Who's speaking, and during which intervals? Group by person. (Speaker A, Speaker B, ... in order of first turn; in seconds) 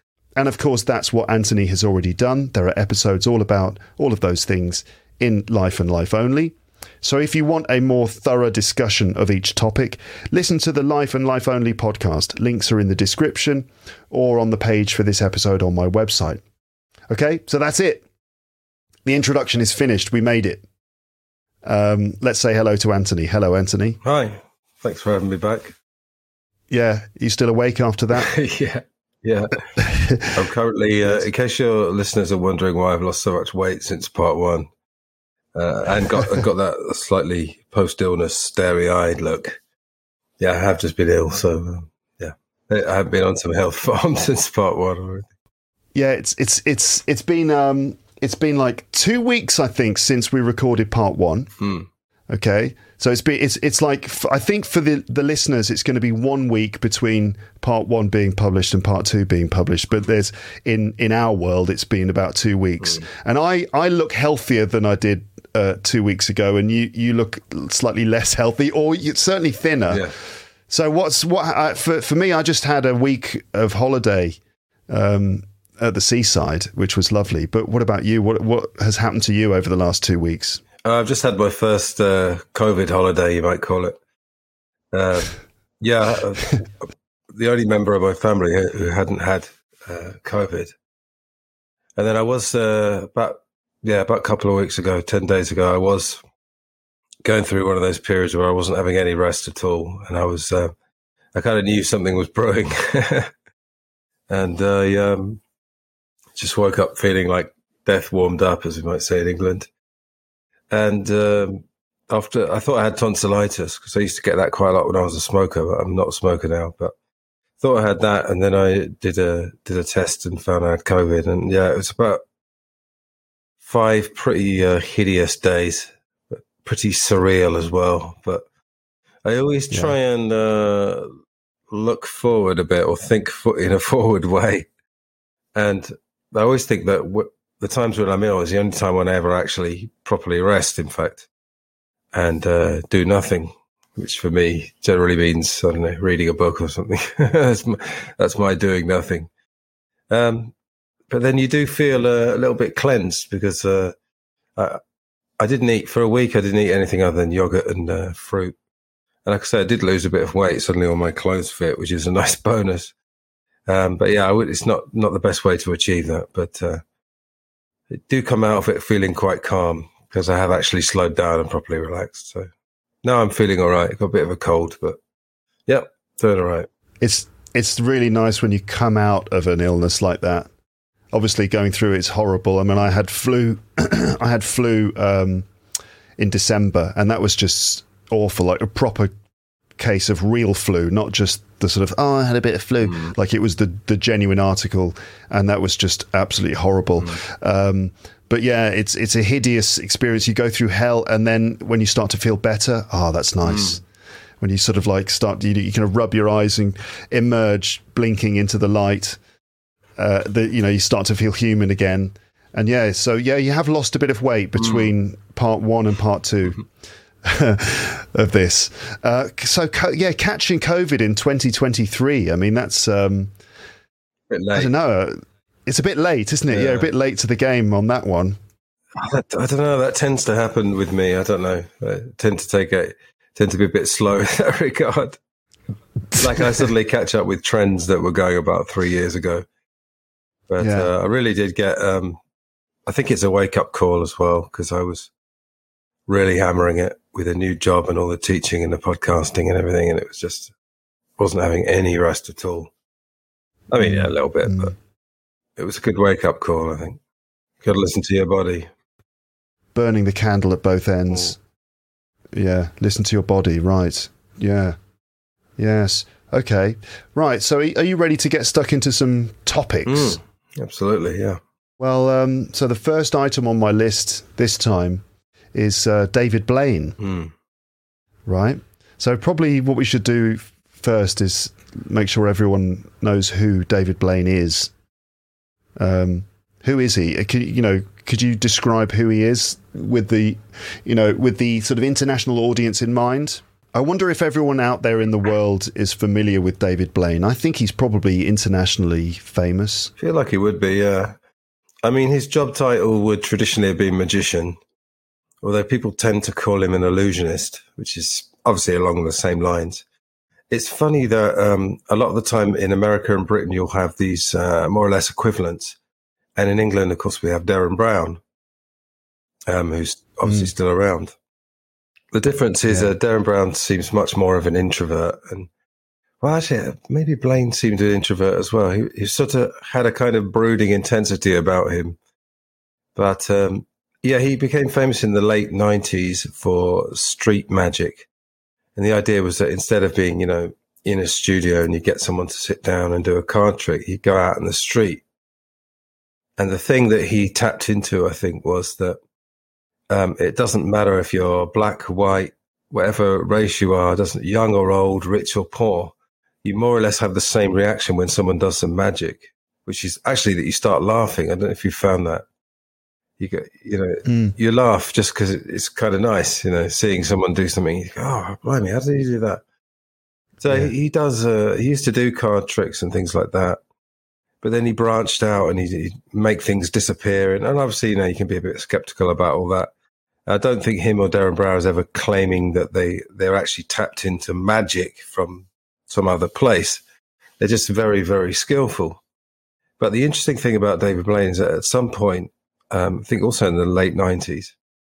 Speaker A: 0.4-16.4, 17.1-18.1, 19.1-20.6, 21.6-24.0, 26.7-28.3, 29.8-30.3, 46.0-51.5, 52.3-70.1, 70.7-80.6, 177.0-180.5, 181.1-185.5, 186.2-189.1, 189.8-203.8, 204.4-209.2, 210.0-216.6, 217.2-223.3, 224.5-228.4, 240.6-240.9, 253.8-254.7, 259.8-261.4, 262.3-264.8, 265.6-270.2, 271.8-277.0, 278.3-284.7, 285.8-299.9, 320.2-320.5, 322.7-322.9, 364.1-364.4, 370.5-370.7
Speaker B: 24.0-25.8, 28.1-29.7, 30.3-34.7, 35.5-39.6, 40.4-45.3, 51.6-51.9, 69.9-70.1, 80.8-84.0, 84.9-90.7, 92.0-96.2, 97.2-100.7, 101.3-103.3, 104.3-105.4, 106.4-109.7, 110.7-116.9, 117.6-122.2, 123.6-128.4, 129.2-131.1, 131.7-134.7, 135.6-141.3, 142.1-149.3, 150.1-150.5, 151.1-153.9, 155.4-158.6, 159.3-162.9, 163.7-166.8, 167.9-172.5, 173.0-175.0, 175.7-176.7, 192.9-193.1, 203.4-203.8, 214.6-214.9, 224.3-224.7, 226.5-226.9, 229.0-235.2, 236.2-239.5, 240.5-242.2, 242.9-245.1, 246.1-250.5, 251.2-252.7, 253.7-254.7, 255.6-257.0, 257.6-258.7, 269.9-271.4, 277.0-277.3, 300.0-301.2, 301.8-304.6, 305.4-309.8, 310.5-315.8, 316.4-318.2, 319.5-321.1, 322.1-325.5, 326.2-332.0, 333.0-338.1, 338.8-345.0, 346.4-349.0, 349.9-362.2, 363.2-369.4, 370.4-373.6, 374.4-379.7, 380.3-386.8, 387.4-389.0, 389.8-394.6